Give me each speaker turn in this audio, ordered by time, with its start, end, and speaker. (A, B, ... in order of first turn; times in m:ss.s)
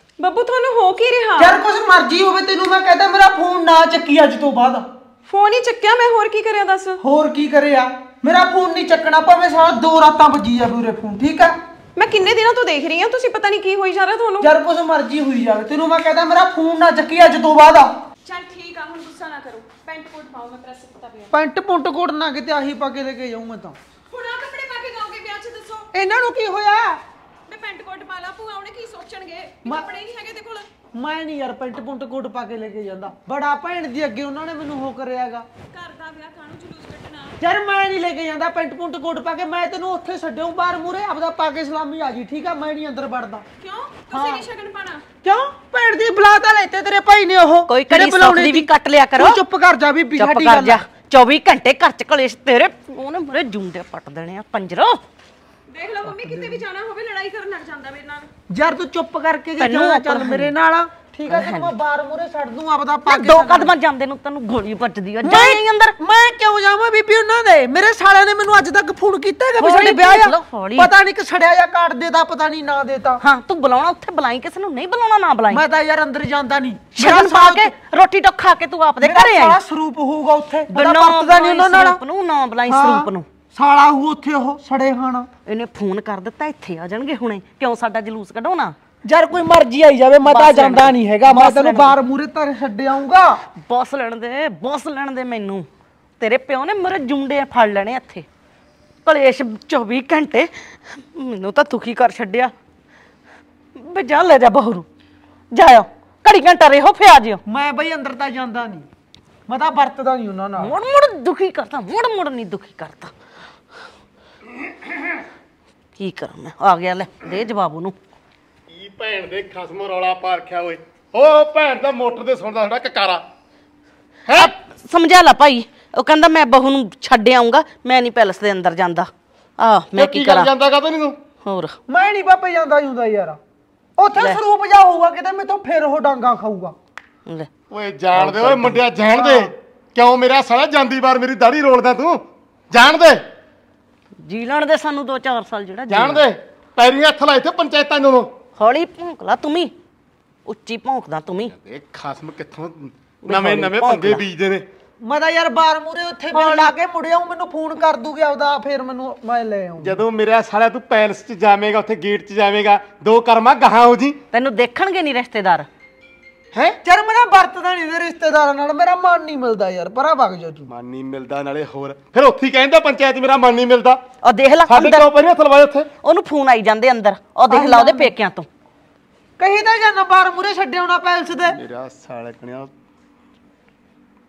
0:00.2-0:01.6 A
0:01.4-0:04.8 B
0:05.3-0:07.0 A
0:07.0-0:11.6 B
0:12.0-0:14.5 A
0:14.4-0:17.9 B
0:18.2-0:21.3 A
0:21.3-0:23.8 B
0:24.1-0:25.9 A
0:25.9-0:27.0 B
0:27.5-0:30.7 A
0:30.9-0:35.5 B
0:35.7-0:37.4 A
0:37.4-0:43.4 B
0:43.6-0:45.0 A
0:44.1-0:44.4 B
0:45.2-0:50.8 B
0:47.7-0:49.4 C
0:50.2-0:55.0 C
0:55.7-0:58.3 A
0:56.0-0:56.6 B
0:58.5-1:03.7 B
0:59.6-1:00.5 C
1:01.3-1:01.7 C
1:03.1-1:06.0 C
1:05.2-1:13.2 B
1:09.6-1:10.9 C
1:13.2-1:15.6 C
1:15.5-1:17.7 B
1:17.0-1:19.6 C
1:19.0-1:22.0 B
1:20.7-1:23.3 C
1:22.7-1:25.3 B
1:25.4-1:28.8 C
1:29.0-1:33.4 B
1:30.2-1:32.0 C
1:33.5-1:35.7 C
1:36.2-1:38.2 C
1:39.0-1:42.5 C
1:43.8-1:44.8 C
1:45.5-1:47.4 C
1:47.4-1:48.9 B
1:49.5-1:50.7 B
1:50.6-1:53.1 C
1:56.0-1:58.0 C
1:58.7-2:03.2 D
2:04.3-2:04.5 D
2:04.3-2:10.5 C
2:10.0-2:11.2 D
2:11.4-2:11.8 C
2:11.9-2:13.4 B
2:14.0-2:16.8 B
2:17.7-2:23.2 D
2:18.3-2:18.7 C
2:19.1-2:19.5 B
2:24.2-2:26.2 C
2:25.9-2:28.3 D
2:28.6-2:29.7 C
2:30.4-2:31.5 C
2:31.4-2:34.7 D
2:33.2-2:34.2 C
2:35.0-2:40.0 B
2:36.3-2:36.7 C
2:39.8-2:44.2 D
2:44.3-2:45.7 C
2:46.5-2:46.8 D
2:46.8-2:50.7 B
2:50.7-2:54.0 D
2:54.2-2:55.1 C
2:54.7-2:55.9 D
2:56.0-2:58.5 C
2:57.5-2:58.1 B
2:59.4-3:01.6 B
3:01.4-3:02.7 D